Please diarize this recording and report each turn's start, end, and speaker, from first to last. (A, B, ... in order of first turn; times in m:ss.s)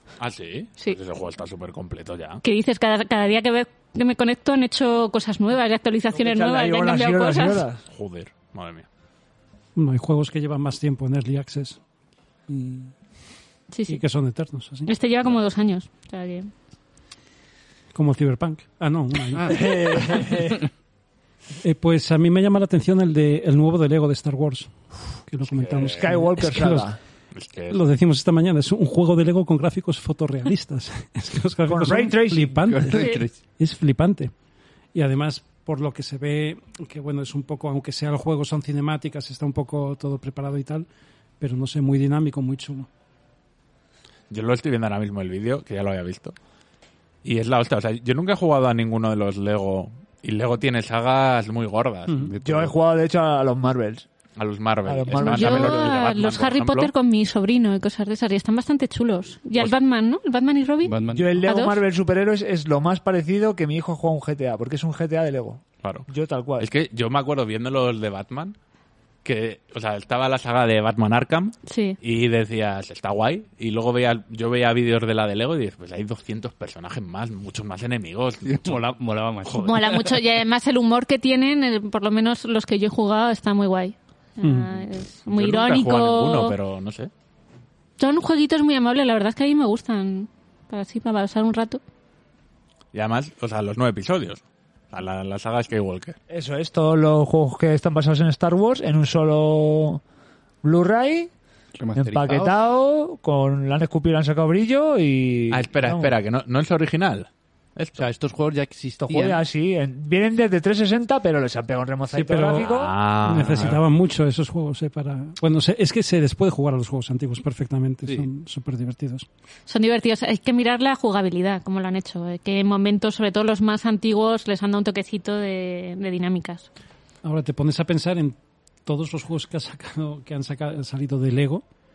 0:00.2-0:02.4 A
0:02.4-0:07.6 B
0:06.1-0:07.8 C
0:07.9-0:08.8 A
0:09.8-0:11.8 D
0:12.5-0:12.9 D
0:13.7-0:14.0 B
0:13.9-0:14.9 D
0:14.8-0:16.5 B
0:17.9-0:19.7 D
0:19.5-0:20.6 C
0:21.6-0:26.9 D
0:25.5-0:26.1 A
0:25.8-0:27.0 C
0:27.3-0:27.8 A
0:27.7-0:34.3 D
0:31.7-0:32.9 C
0:32.7-0:33.3 E
0:33.0-0:33.2 B
0:34.9-0:40.9 D
0:41.4-0:42.9 D
0:44.3-0:46.4 A
0:47.2-0:52.2 A
0:52.1-0:52.3 D
0:52.2-0:52.7 E
0:52.4-0:54.1 C
0:54.4-0:56.9 A
0:54.8-0:55.9 C
0:55.2-1:01.8 B
1:00.8-1:01.5 E
1:01.1-1:06.7 C
1:06.6-1:08.6 A
1:09.2-1:18.8 A
1:11.7-1:12.0 B
1:18.4-1:20.1 E
1:19.5-1:26.5 B
1:24.4-1:24.7 D
1:25.3-1:27.1 A
1:28.0-1:31.8 B
1:32.9-1:36.2 A
1:36.3-1:40.0 C
1:40.6-1:41.3 C
1:41.8-1:42.5 E
1:42.0-1:46.1 C
1:45.5-1:48.1 A
1:48.0-1:49.4 E
1:49.0-1:52.9 C
1:52.1-1:52.7 D
1:52.6-1:53.8 A
1:53.2-1:59.2 D
1:59.7-2:06.7 B
2:07.2-2:11.6 D